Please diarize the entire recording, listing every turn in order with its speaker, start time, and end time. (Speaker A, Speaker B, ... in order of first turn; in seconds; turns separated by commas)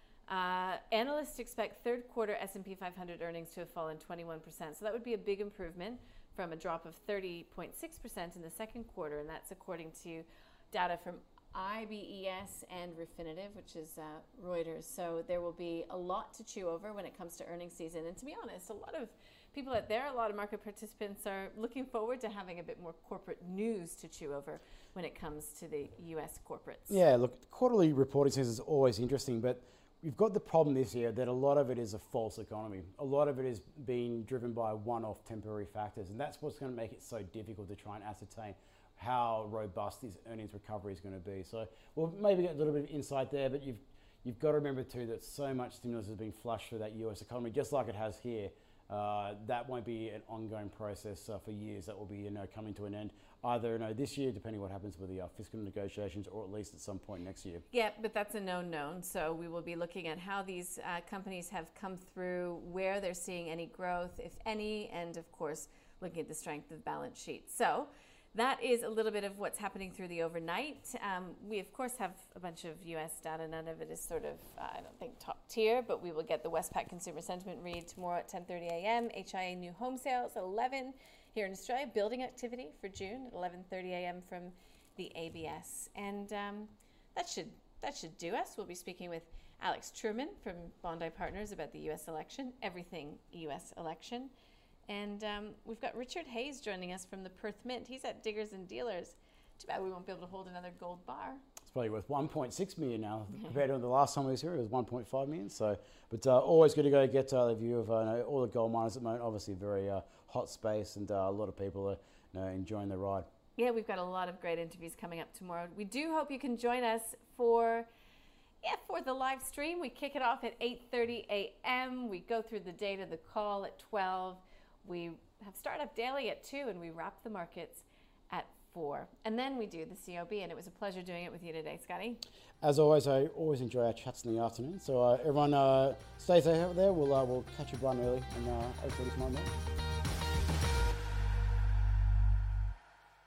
Speaker A: 0.3-27.0, Speaker B: 26.9-57.6, Speaker A: 57.7-94.3, Speaker A: 94.9-101.4, Speaker B: 101.7-113.3, Speaker A: 113.5-117.9, Speaker A: 118.6-132.2, Speaker B: 132.6-139.5